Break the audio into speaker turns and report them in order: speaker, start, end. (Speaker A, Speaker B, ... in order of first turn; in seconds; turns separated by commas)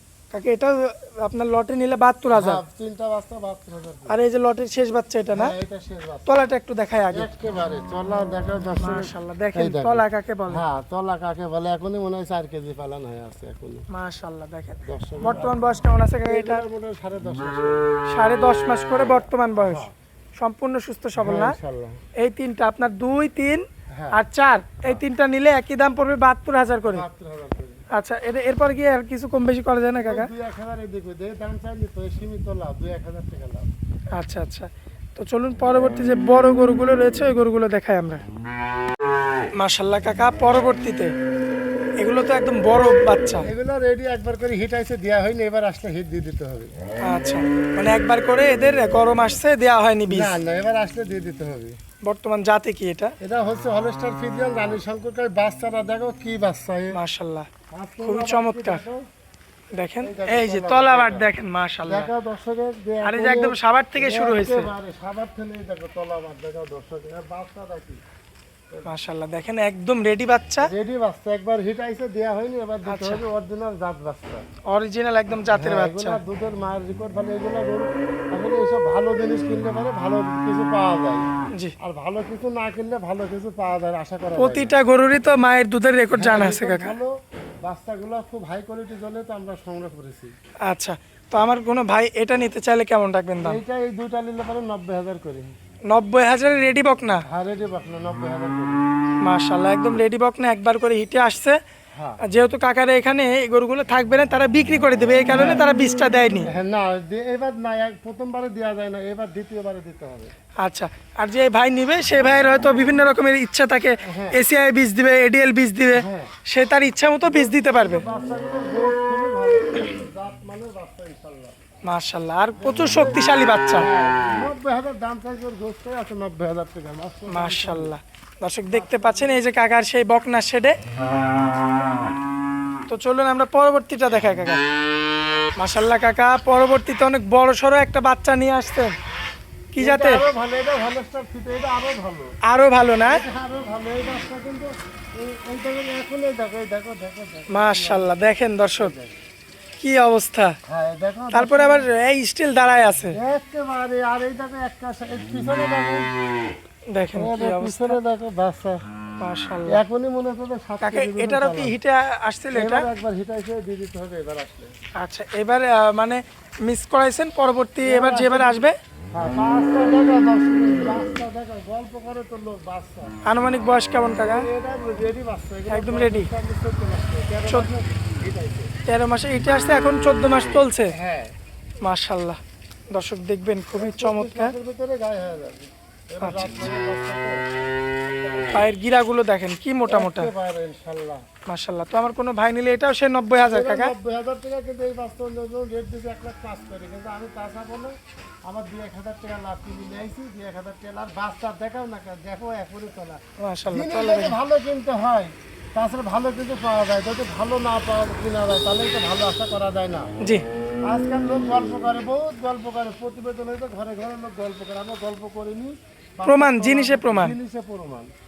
Speaker A: 0.3-2.6, Speaker B: 2.3-4.2, Speaker A: 4.1-5.5, Speaker B: 5.3-6.3, Speaker A: 6.3-7.3, Speaker B: 7.1-13.8, Speaker A: 8.8-10.6, Speaker A: 13.9-16.6, Speaker B: 14.8-15.7, Speaker B: 16.3-17.8, Speaker A: 18.1-21.6, Speaker B: 19.6-19.9, Speaker B: 21.2-22.0, Speaker A: 22.2-27.1, Speaker B: 23.9-24.2, Speaker B: 26.8-27.8, Speaker A: 27.9-30.3, Speaker B: 30.0-33.7, Speaker A: 34.1-38.2, Speaker A: 39.6-41.1, Speaker A: 42.0-43.5, Speaker B: 43.5-46.7, Speaker A: 47.0-50.4, Speaker B: 50.1-51.8, Speaker A: 52.0-53.1, Speaker B: 53.2-57.0, Speaker A: 56.9-57.5, Speaker B: 57.7-59.0, Speaker A: 58.0-58.8, Speaker A: 59.8-62.1, Speaker B: 60.0-61.3, Speaker B: 61.9-68.0, Speaker A: 63.0-64.7, Speaker A: 68.9-70.7, Speaker B: 70.6-74.4, Speaker A: 72.9-73.2, Speaker A: 74.7-76.2, Speaker B: 75.5-81.3, Speaker B: 81.8-84.8, Speaker A: 84.4-86.9, Speaker B: 86.1-90.3, Speaker A: 90.7-93.6, Speaker B: 93.4-95.5, Speaker A: 95.9-97.2, Speaker B: 97.3-98.8, Speaker A: 99.2-101.6, Speaker B: 102.0-102.2, Speaker A: 102.2-106.5, Speaker B: 105.3-105.6, Speaker B: 106.5-110.3, Speaker A: 110.6-118.0, Speaker B: 114.0-114.4, Speaker B: 116.0-116.3, Speaker B: 117.2-121.6, Speaker A: 121.8-123.9, Speaker B: 122.6-128.0, Speaker A: 127.3-130.8, Speaker B: 128.7-129.4, Speaker A: 132.9-134.6, Speaker A: 135.6-138.9, Speaker A: 139.7-140.2, Speaker B: 139.8-142.3, Speaker A: 142.5-143.2, Speaker B: 143.1-148.2, Speaker A: 147.5-148.9, Speaker B: 148.8-149.2, Speaker A: 149.8-150.6, Speaker B: 150.7-151.9, Speaker A: 151.3-153.2, Speaker B: 153.2-156.1, Speaker A: 156.9-158.0, Speaker B: 157.1-158.8, Speaker A: 159.2-159.8, Speaker B: 159.7-161.8, Speaker A: 160.8-162.9, Speaker B: 162.5-164.7, Speaker A: 165.0-168.8, Speaker B: 167.8-173.1, Speaker A: 173.2-174.5, Speaker B: 174.2-178.7, Speaker A: 175.7-176.3, Speaker A: 178.9-180.9, Speaker B: 180.9-181.3, Speaker A: 181.8-182.4, Speaker A: 182.9-184.5, Speaker B: 183.8-187.4, Speaker A: 186.2-186.5, Speaker A: 188.5-190.3, Speaker B: 189.9-191.2, Speaker A: 191.5-193.9, Speaker B: 193.4-197.9, Speaker B: 198.5-210.1, Speaker A: 203.4-204.4, Speaker B: 210.8-218.1, Speaker A: 216.2-217.3